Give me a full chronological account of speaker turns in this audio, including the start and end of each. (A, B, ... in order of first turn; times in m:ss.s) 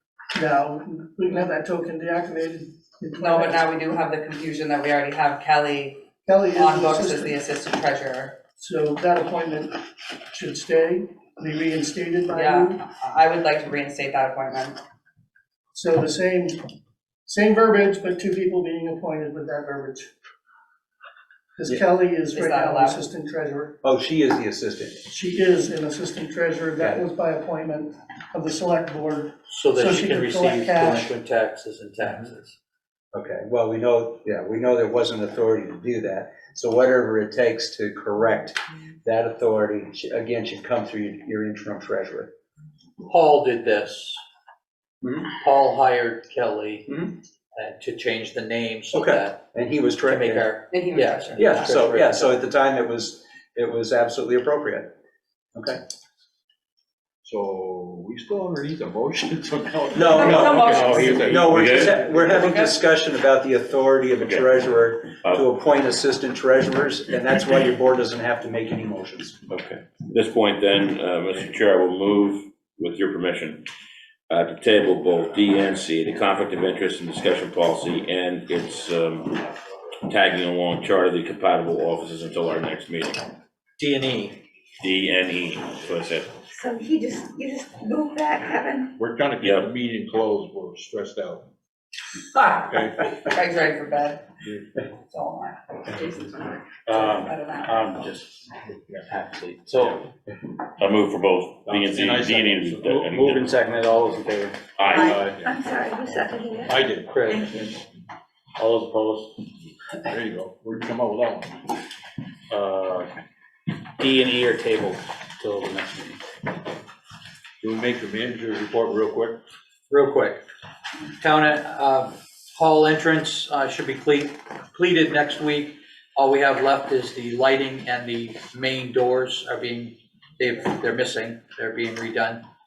0:00.3-0:03.6 A
0:03.2-0:08.4 B
0:06.2-0:07.4 A
0:08.6-0:09.8 A
0:10.3-0:12.8 A
0:12.3-0:14.8 B
0:15.7-0:16.6 A
0:17.2-0:20.1 A
0:21.6-0:23.8 A
0:22.3-0:23.0 B
0:23.8-0:25.0 C
0:25.1-0:31.1 A
0:26.8-0:27.0 C
0:29.5-0:32.5 D
0:33.1-0:42.3 C
0:43.0-0:44.2 D
0:45.0-0:45.3 C
0:45.2-0:49.4 D
0:48.9-0:50.5 C
0:50.0-0:52.4 D
0:50.7-0:51.8 B
0:51.4-0:54.9 C
0:55.5-0:55.8 C
0:57.2-1:01.7 E
0:59.9-1:02.8 B
0:59.9-1:09.4 C
1:00.3-1:01.4 F
1:01.4-1:02.0 G
1:09.5-1:13.6 G
1:14.3-1:19.4 G
1:20.0-1:23.2 G
1:23.8-1:24.4 D
1:24.8-1:26.3 G
1:26.5-1:28.9 H
1:29.0-1:31.5 E
1:32.5-1:33.0 E
1:33.2-1:34.2 B
1:35.0-1:38.0 B
1:36.8-1:38.4 F
1:39.1-1:40.0 F
1:40.8-1:43.5 G
1:41.6-1:42.9 E
1:42.8-1:44.8 F
1:44.8-1:45.2 G
1:44.8-1:47.7 H
1:45.0-1:45.6 E
1:46.6-1:47.2 E
1:47.1-1:47.4 D
1:48.6-1:49.4 F
1:50.0-1:51.6 E
1:52.5-1:53.1 F
1:54.0-1:56.2 F
1:57.6-1:59.4 E
1:59.9-2:00.4 D
2:01.2-2:12.4 D